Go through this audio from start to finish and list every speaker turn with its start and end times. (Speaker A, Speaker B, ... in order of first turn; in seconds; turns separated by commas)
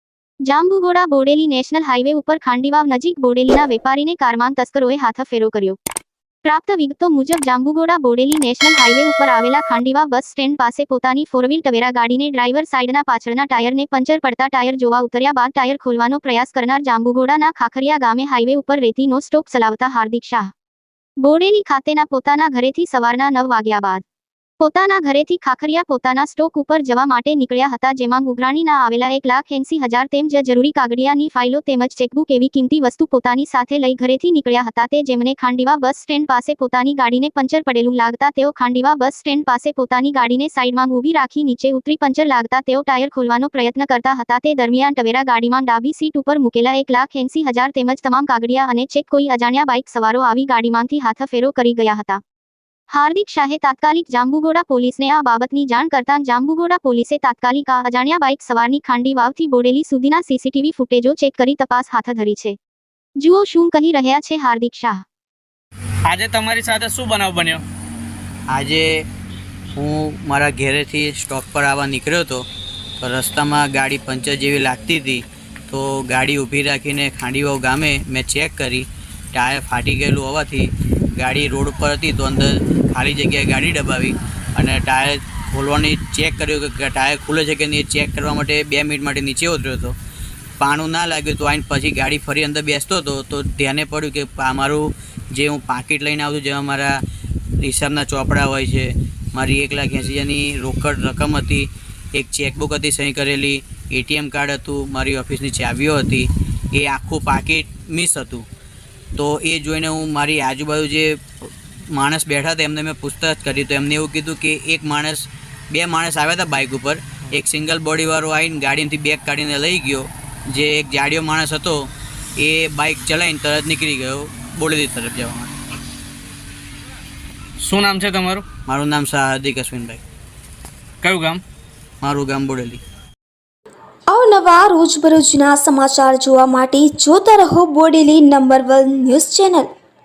Speaker A: 0.5-5.8, Speaker A: 6.5-20.5, Speaker A: 21.2-24.0, Speaker A: 24.6-52.2, Speaker A: 52.9-62.6, Speaker A: 63.2-65.0, Speaker B: 66.1-67.6, Speaker C: 68.5-68.9, Speaker C: 69.8-72.4, Speaker C: 73.0-90.0, Speaker C: 90.6-97.0, Speaker C: 97.6-108.5, Speaker C: 109.2-111.2, Speaker C: 111.9-125.5, Speaker B: 127.6-128.4, Speaker C: 128.7-130.0, Speaker B: 131.0-131.4, Speaker C: 132.0-132.8, Speaker D: 134.1-139.7